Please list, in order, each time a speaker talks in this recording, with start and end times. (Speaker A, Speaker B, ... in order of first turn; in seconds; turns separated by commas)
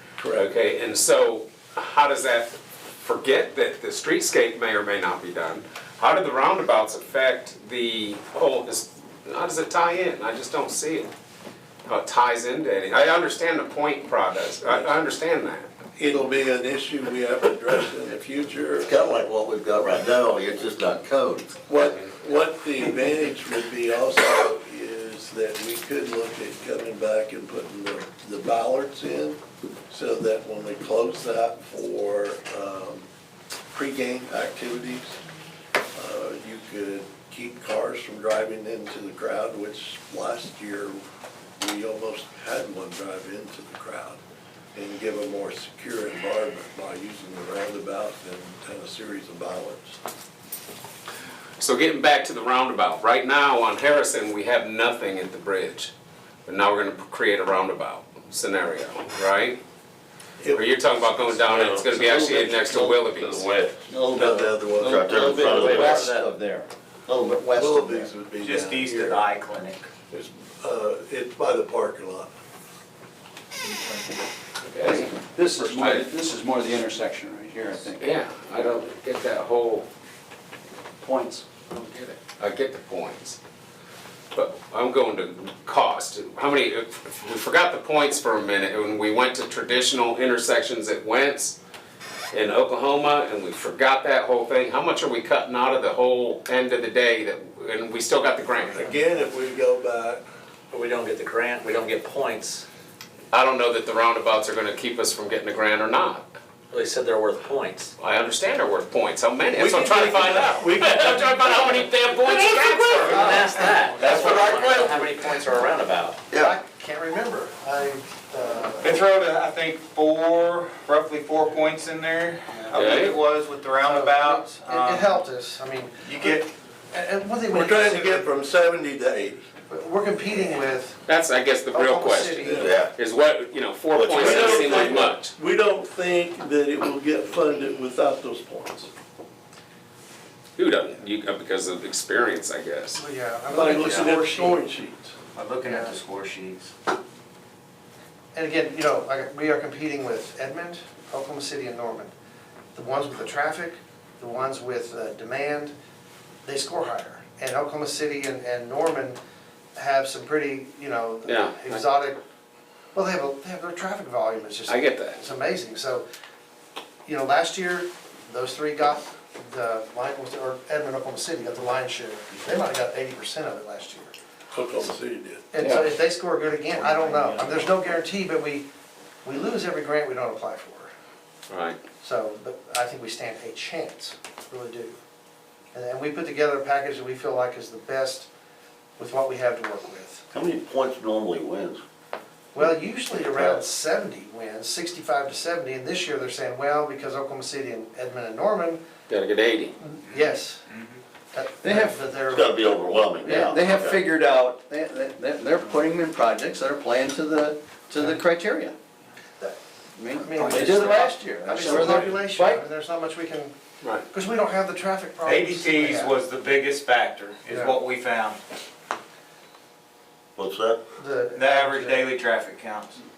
Speaker A: 0.2-0.5, Speaker B: 0.3-11.1, Speaker B: 11.8-15.7, Speaker A: 14.7-14.9, Speaker A: 16.0-18.9, Speaker C: 18.8-21.6, Speaker A: 21.7-33.1, Speaker A: 33.7-35.2, Speaker A: 35.9-41.0, Speaker A: 41.6-44.2, Speaker A: 44.7-50.0, Speaker B: 51.6-55.9, Speaker B: 56.5-59.6, Speaker A: 60.4-61.5, Speaker B: 60.5-63.5, Speaker C: 61.6-63.7, Speaker D: 63.9-68.1, Speaker A: 64.1-65.9, Speaker C: 64.8-66.2, Speaker A: 67.5-69.2, Speaker E: 68.4-69.8, Speaker A: 70.1-72.3, Speaker B: 74.7-76.0, Speaker D: 74.8-78.1, Speaker B: 78.0-79.9, Speaker D: 81.0-81.4, Speaker B: 81.7-83.4, Speaker B: 84.3-91.6, Speaker B: 92.3-98.9, Speaker A: 98.7-100.2, Speaker F: 100.7-102.6, Speaker B: 103.3-106.3, Speaker F: 106.7-107.9, Speaker B: 108.0-113.5, Speaker A: 109.5-111.9, Speaker E: 112.9-113.3, Speaker F: 113.0-116.2, Speaker G: 113.1-113.5, Speaker E: 114.0-114.8, Speaker B: 114.2-114.5, Speaker G: 116.3-119.0, Speaker E: 118.8-125.2, Speaker B: 122.7-123.2, Speaker G: 123.8-128.3, Speaker E: 126.0-126.5, Speaker A: 127.5-129.4, Speaker G: 129.7-131.0, Speaker B: 131.1-135.3, Speaker G: 131.7-132.8, Speaker A: 132.4-132.7, Speaker C: 132.5-132.9, Speaker C: 133.9-135.1, Speaker A: 134.1-138.9, Speaker B: 140.6-143.0, Speaker G: 142.9-144.7, Speaker A: 143.5-145.2, Speaker F: 145.3-146.7, Speaker G: 145.6-145.9, Speaker G: 148.3-152.1, Speaker G: 152.7-155.7, Speaker G: 156.4-159.2, Speaker G: 159.7-162.2, Speaker B: 161.2-161.8, Speaker G: 162.9-166.0, Speaker B: 164.7-165.2, Speaker G: 167.1-174.1, Speaker A: 174.5-175.5, Speaker G: 175.5-178.7, Speaker D: 175.6-175.9, Speaker D: 176.9-177.2, Speaker G: 179.2-180.9, Speaker B: 181.5-181.8, Speaker G: 182.0-185.0, Speaker G: 185.7-188.3, Speaker G: 189.0-190.2, Speaker C: 190.3-191.8, Speaker G: 192.5-198.8, Speaker B: 199.1-199.7, Speaker G: 199.8-200.7, Speaker G: 201.3-203.6, Speaker D: 201.6-202.0, Speaker C: 202.3-204.1, Speaker D: 203.2-208.7, Speaker D: 209.9-212.6, Speaker G: 210.1-213.5, Speaker E: 210.4-211.1, Speaker G: 214.1-216.2, Speaker E: 215.2-218.4, Speaker G: 217.5-217.8, Speaker C: 220.3-220.8, Speaker G: 221.0-222.1, Speaker E: 221.3-223.0